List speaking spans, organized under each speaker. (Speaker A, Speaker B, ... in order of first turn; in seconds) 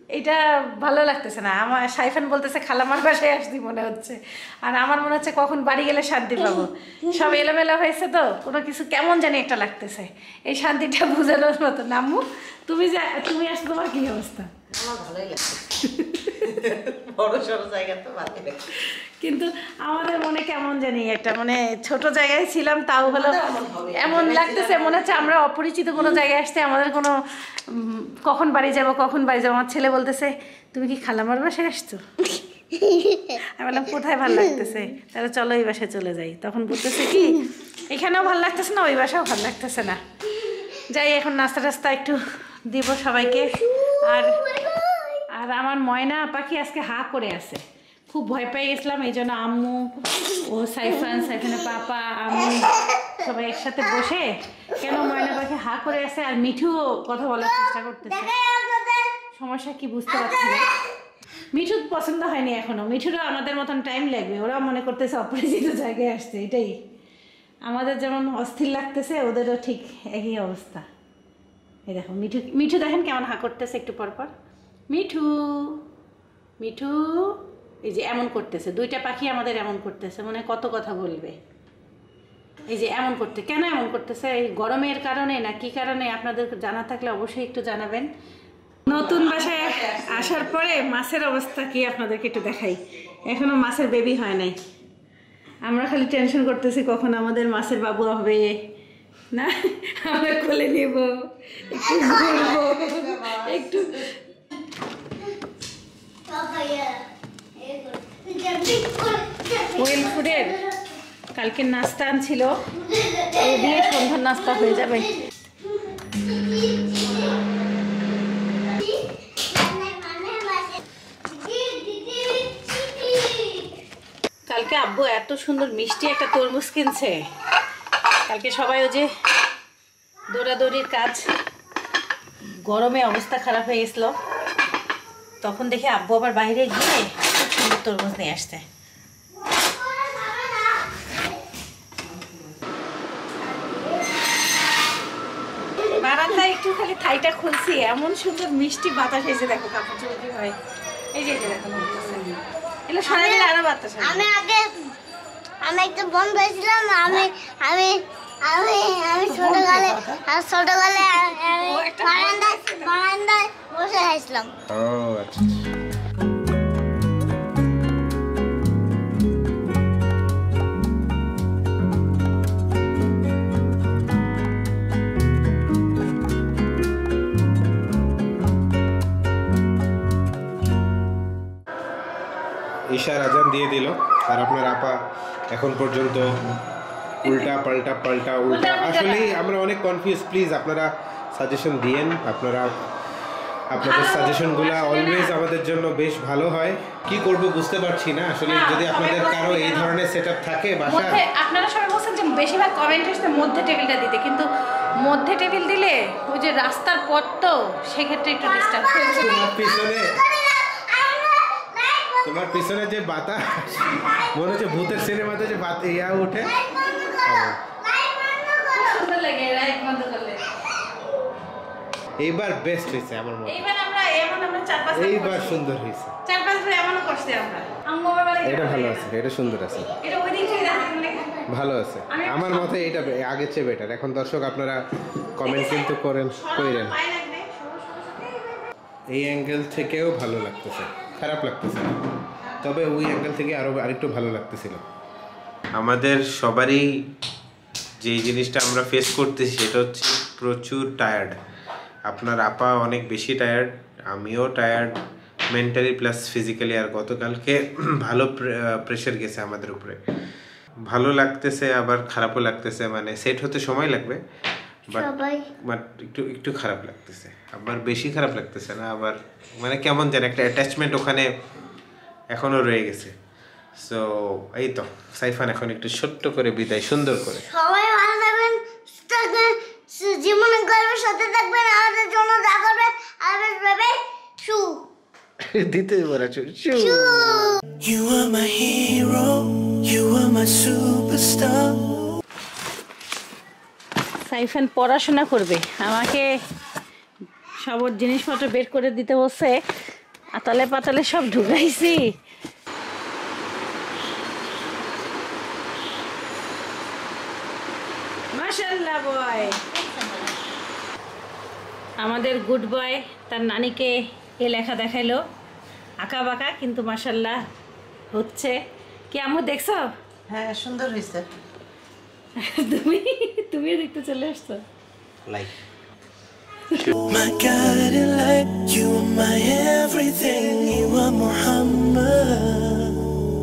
Speaker A: 0.1-14.5, 15.7-16.6, 18.8-32.4, 33.3-40.0, 40.5-44.7, 45.3-58.3, 59.4-60.7, 61.5-66.8, 67.7-70.9, 71.9-74.3, 74.9-75.8, 76.6-81.4, 82.6-88.1, 88.8-94.6, 95.6-98.6, 99.3-104.2, 109.8-110.6, 111.3-112.6, 113.3-115.2, 124.5-127.3, 128.3-129.1, 130.3-131.2, 132.7-134.1, 135.4-138.7, 145.8-150.6, 151.1-154.3, 159.3-159.9, 161.1-162.9, 188.4-189.4, 193.8-195.4, 198.5-199.9, 200.9-209.5, 216.8-217.1, 218.7-220.5, 223.5-225.6, 226.2-229.1, 230.0-231.4, 232.1-233.0, 235.4-238.6, 294.3-296.3, 297.6-299.6, 300.4-302.1, 308.3-309.6, 312.0-315.2, 316.0-317.4, 318.1-318.6, 319.1-319.9, 322.4-324.6
Speaker B: 14.7-15.6, 16.4-18.7, 23.1-25.3, 32.8-33.2, 44.6-45.1, 88.9-90.5, 101.8-104.1, 107.6-108.2, 109.3-110.0, 112.8-113.3, 115.8-117.4, 118.6-123.7, 139.8-140.7, 153.2-153.5, 154.0-154.7, 155.6-156.2, 156.8-164.5, 210.5-212.3, 216.8-217.3, 217.9-218.5, 309.6-310.3, 320.3-321.3
Speaker C: 58.1-59.1, 106.3-107.0, 107.6-110.5, 154.2-154.7, 155.6-157.9, 158.5-162.3, 163.1-164.5, 264.9-265.4, 277.5-284.8, 286.8-287.1
Speaker D: 164.7-165.7, 182.9-185.0, 185.5-186.3, 187.2-192.9, 193.7-201.2, 209.1-210.2, 212.2-216.6, 217.2-217.6, 222.2-223.6, 224.9-226.1, 228.4-229.9, 231.5-234.8, 235.3-237.0, 239.1-242.0, 242.6-244.8, 245.8-246.9, 248.0-251.3, 252.1-254.9, 255.5-260.0, 260.9-264.2, 265.7-271.3, 272.3-273.1, 273.8-277.5, 285.5-287.4, 325.3-325.5
Speaker E: 287.8-292.1, 327.1-333.1